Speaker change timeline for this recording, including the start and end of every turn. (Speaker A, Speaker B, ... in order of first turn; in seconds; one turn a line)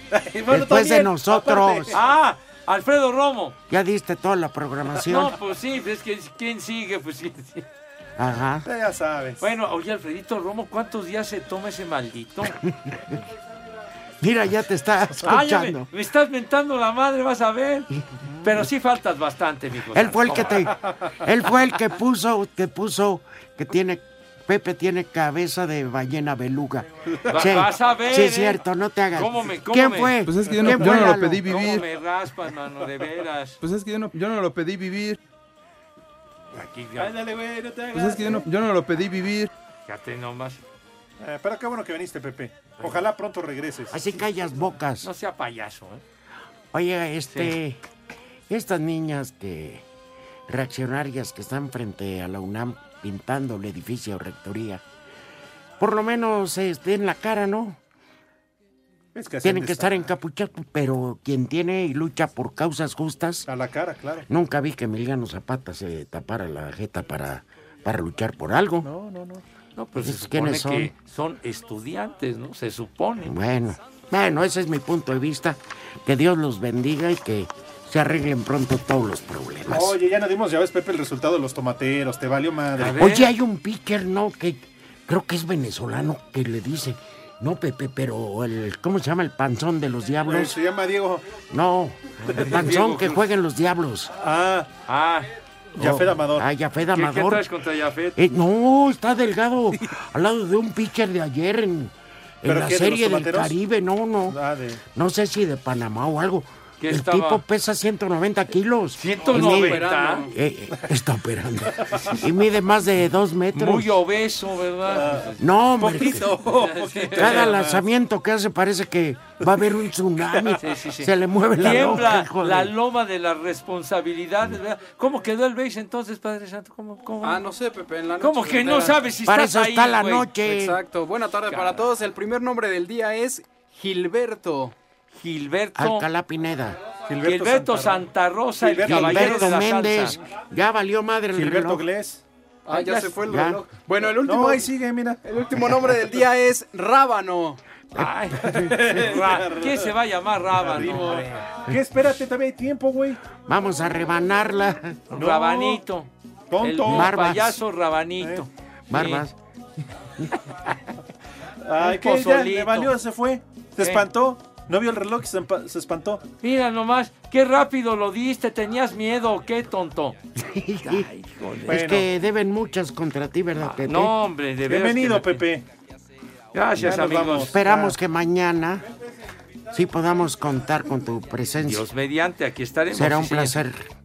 Speaker A: 0.1-2.0
Speaker B: 0.5-2.0
Speaker C: 1.9-3.5
Speaker B: 3.7-5.3
Speaker C: 5.0-7.7
Speaker B: 8.2-8.7
Speaker A: 8.7-9.4
Speaker C: 9.4-12.6
Speaker B: 12.4-13.2
Speaker B: 14.2-15.9
Speaker C: 15.2-17.9
Speaker C: 18.4-20.7
Speaker B: 19.9-31.7
Speaker C: 27.3-28.6
Speaker C: 29.1-33.6
Speaker D: 30.2-31.8
Speaker D: 33.6-35.2
Speaker C: 36.5-37.1
Speaker A: 37.0-38.5
Speaker D: 37.9-39.5
Speaker C: 39.9-40.6
Speaker A: 41.2-44.0
Speaker B: 43.9-45.1
Speaker C: 45.0-46.0
Speaker B: 46.7-47.8
Speaker B: 48.5-49.9
Speaker B: 50.5-54.8
Speaker B: 55.8-57.8
Speaker A: 59.1-60.1
Speaker B: 59.4-63.5
Speaker A: 63.5-64.2
Speaker B: 64.3-68.9
Speaker A: 68.8-69.4
Speaker C: 69.8-73.3
Speaker B: 70.0-70.9
Speaker B: 73.2-80.0
Speaker A: 79.7-83.1
Speaker C: 82.8-83.3
Speaker B: 82.9-90.5
Speaker A: 90.2-91.2
Speaker B: 91.5-94.1
Speaker C: 92.2-93.2
Speaker A: 94.2-94.7
Speaker C: 94.9-95.3
Speaker B: 95.8-97.4
Speaker A: 95.8-96.5
Speaker C: 96.9-98.2
Speaker B: 98.2-104.4
Speaker A: 102.5-103.5
Speaker A: 104.3-104.8
Speaker B: 104.9-113.9
Speaker C: 106.8-107.4
Speaker C: 109.0-110.3
Speaker E: 109.3-110.3
Speaker C: 113.5-117.7
Speaker A: 114.9-115.3
Speaker B: 115.4-116.3
Speaker A: 115.8-117.8
Speaker B: 117.1-122.7
Speaker C: 120.6-127.4
Speaker A: 121.7-122.0
Speaker E: 127.2-129.0
Speaker C: 128.2-130.3
Speaker B: 129.2-130.8
Speaker E: 130.4-134.7
Speaker C: 131.5-131.9
Speaker C: 135.1-136.1
Speaker B: 135.8-136.8
Speaker A: 137.1-138.0
Speaker C: 137.2-140.2
Speaker A: 138.6-139.6
Speaker B: 138.8-141.8
Speaker A: 141.3-142.2
Speaker E: 142.7-144.7
Speaker C: 142.7-143.2
Speaker B: 143.2-143.6
Speaker A: 144.2-145.2
Speaker E: 145.2-147.6
Speaker B: 147.9-148.8
Speaker C: 147.9-151.3
Speaker A: 148.6-149.9
Speaker A: 150.5-153.2
Speaker B: 153.4-155.0
Speaker C: 155.1-156.1
Speaker A: 155.1-155.8
Speaker A: 156.5-157.1
Speaker C: 156.6-159.2
Speaker B: 156.8-157.6
Speaker B: 158.9-159.3
Speaker A: 161.6-166.2
Speaker C: 161.8-162.9
Speaker C: 163.8-164.1
Speaker C: 166.4-170.2
Speaker B: 170.3-171.1
Speaker C: 170.8-171.9
Speaker B: 171.7-174.1
Speaker A: 171.7-172.0
Speaker C: 173.6-175.4
Speaker A: 174.7-175.7
Speaker C: 176.5-177.5
Speaker A: 176.8-177.9
Speaker B: 177.5-178.8
Speaker B: 179.7-181.9
Speaker C: 181.6-183.7
Speaker B: 182.9-183.9